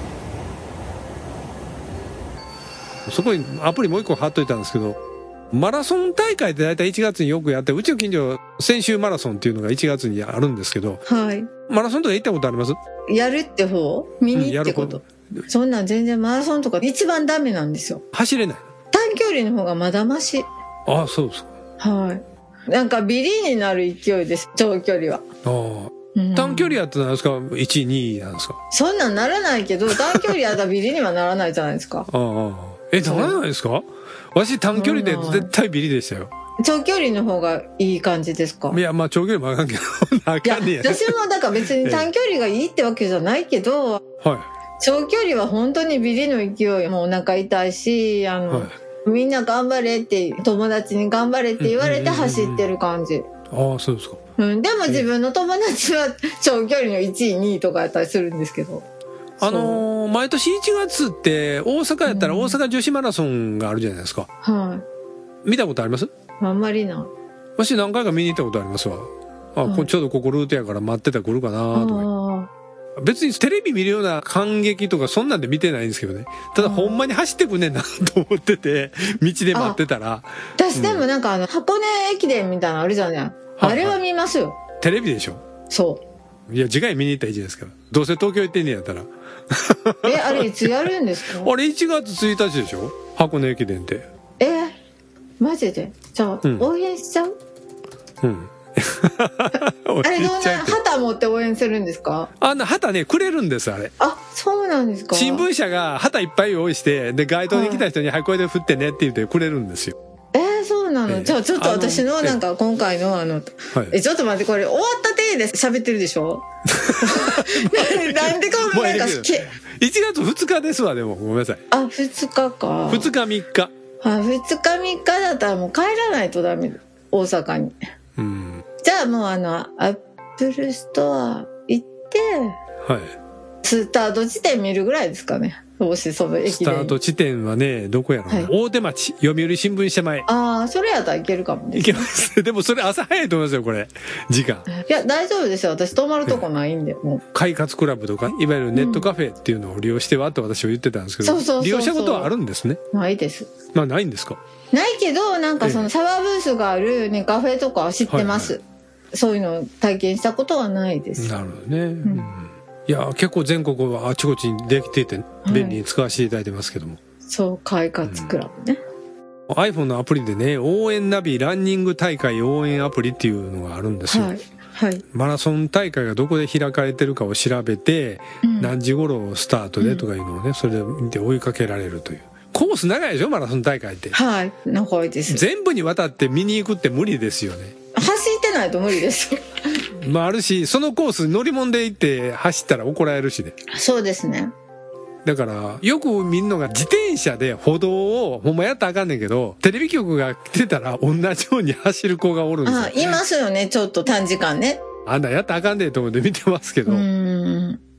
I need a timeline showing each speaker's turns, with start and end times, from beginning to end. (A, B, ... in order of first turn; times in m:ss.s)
0:03.0-0:05.0 A
0:05.5-0:11.0 A
0:11.1-0:11.5 B
0:11.7-0:12.8 A
0:13.1-0:18.0 B
0:14.3-0:15.4 A
0:18.1-0:18.6 A
0:18.9-0:20.5 B
0:20.9-0:21.5 A
0:21.8-0:25.2 B
0:25.4-0:28.6 A
0:26.1-0:26.8 B
0:28.7-0:32.1 B
0:29.9-0:30.3 A
0:32.1-0:36.3 A
0:33.0-0:33.4 B
0:34.7-0:35.5 B
0:36.6-0:38.8 B
0:38.7-0:41.2 A
0:40.4-0:44.0 B
0:41.8-0:42.1 A
0:44.2-0:44.5 A
0:44.8-0:53.3 B
0:51.6-0:52.7 A
0:53.5-0:54.2 A
0:54.4-0:58.8 B
0:59.4-1:04.3 A
0:59.4-0:59.8 B
1:02.0-1:02.6 B
1:04.4-1:04.8 B
1:05.4-1:06.1 A
1:06.4-1:07.1 B
1:07.6-1:12.1 A
1:09.6-1:09.9 B
1:11.7-1:12.5 B
1:13.0-1:21.0 A
1:16.6-1:17.0 B
1:19.5-1:19.8 B
1:20.6-1:24.6 B
1:23.6-1:24.0 A
1:24.8-1:25.4 A
1:25.7-1:26.0 B
1:26.5-1:30.5 A
1:30.0-1:31.5 B
1:31.4-1:34.1 A
1:34.4-1:34.7 B
1:35.4-1:37.3 B
1:36.4-1:36.7 A
1:38.2-1:40.8 A
1:40.0-1:42.3 B
1:42.4-1:43.9 A
1:44.0-1:45.4 B
1:45.1-1:49.9 A
1:47.5-1:47.8 B
1:50.3-1:56.4 B
1:51.1-1:52.4 A
1:56.7-2:01.6 A
1:56.9-1:59.5 B
2:01.7-2:03.1 B
2:02.9-2:03.7 A
2:04.0-2:07.7 B
2:08.2-2:08.6 A
2:08.8-2:12.6 B
2:12.8-2:13.2 A
2:13.6-2:17.0 B
2:16.4-2:20.2 A
2:20.3-2:22.1 B
2:21.8-2:24.6 A
2:24.7-2:27.2 B
2:27.3-2:32.8 A
2:28.7-2:29.1 B
2:31.2-2:32.3 B
2:32.9-2:33.5 B
2:33.7-2:34.4 A
2:34.7-2:38.6 B
2:35.6-2:35.9 A
2:38.1-2:38.5 A
2:39.1-2:41.3 B
2:41.2-2:47.0 A
2:45.4-2:45.8 B
2:47.3-2:48.8 B
2:48.0-2:48.3 A
2:49.5-2:54.3 A
2:54.1-2:55.0 B
2:55.1-3:04.2 A
2:58.4-2:58.7 B
2:59.8-3:00.0 B
3:04.1-3:05.4 B
3:05.3-3:07.7 A
3:07.9-3:09.6 B
3:10.0-3:13.5 A
3:13.7-3:14.5 B
3:15.2-3:23.2 A
3:22.6-3:24.8 B
3:25.0-3:27.0 A
3:26.8-3:27.8 B